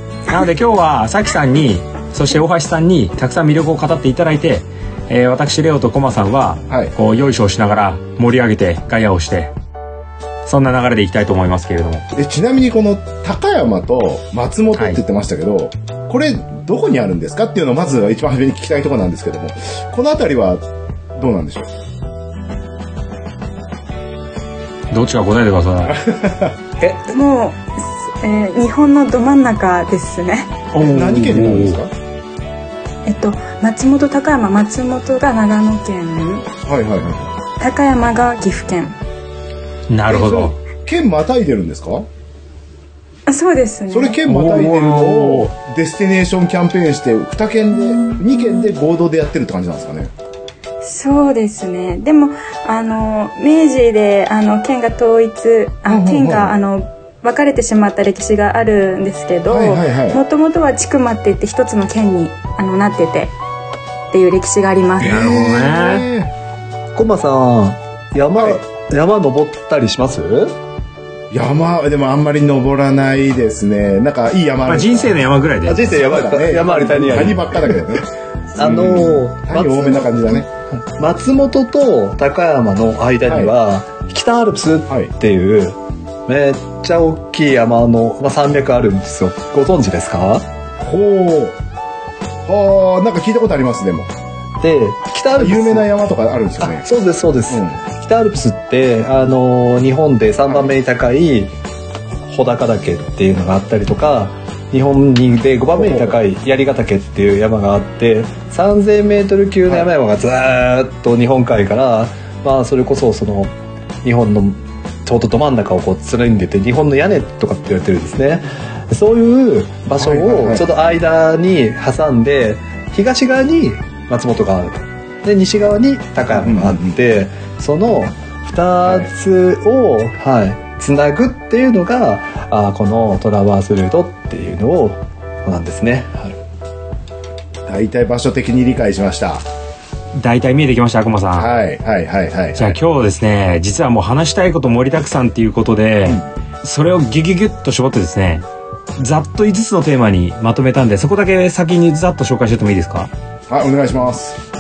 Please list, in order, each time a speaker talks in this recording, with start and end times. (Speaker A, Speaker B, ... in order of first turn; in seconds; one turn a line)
Speaker A: 0.3-9.5
Speaker A: 10.5-12.1
Speaker B: 12.2-20.6
Speaker A: 14.7-15.0
Speaker B: 21.1-21.7
Speaker A: 24.9-26.0
Speaker B: 25.9-26.6
Speaker C: 26.9-30.6
Speaker A: 30.7-31.8
Speaker B: 30.8-31.9
Speaker C: 33.1-36.5
Speaker B: 36.6-37.3
Speaker C: 37.6-39.0
Speaker A: 39.9-40.6
Speaker B: 40.1-42.1
Speaker C: 43.3-44.2
Speaker B: 43.9-50.1
Speaker A: 44.2-45.5
Speaker C: 47.7-48.8
Speaker C: 50.8-63.3
Speaker B: 55.9-56.5
Speaker B: 59.5-60.2
Speaker C: 64.1-65.2
Speaker A: 65.0-66.1
Speaker B: 65.0-66.3
Speaker D: 67.0-70.6
Speaker B: 71.3-80.5
Speaker A: 74.7-75.9
Speaker D: 75.7-77.8
Speaker D: 78.6-90.5
Speaker B: 83.3-83.5
Speaker B: 90.8-91.6
Speaker B: 92.5-94.1
Speaker D: 94.6-95.9
Speaker B: 95.4-96.9
Speaker D: 96.6-101.5
Speaker B: 97.5-97.8
Speaker D: 102.2-136.4
Speaker B: 105.8-106.2
Speaker B: 120.0-120.7
Speaker B: 126.4-127.0
Speaker B: 137.7-139.4
Speaker A: 140.2-141.5
Speaker B: 141.4-142.8
Speaker A: 142.6-148.4
Speaker A: 149.0-153.1
Speaker B: 153.5-154.4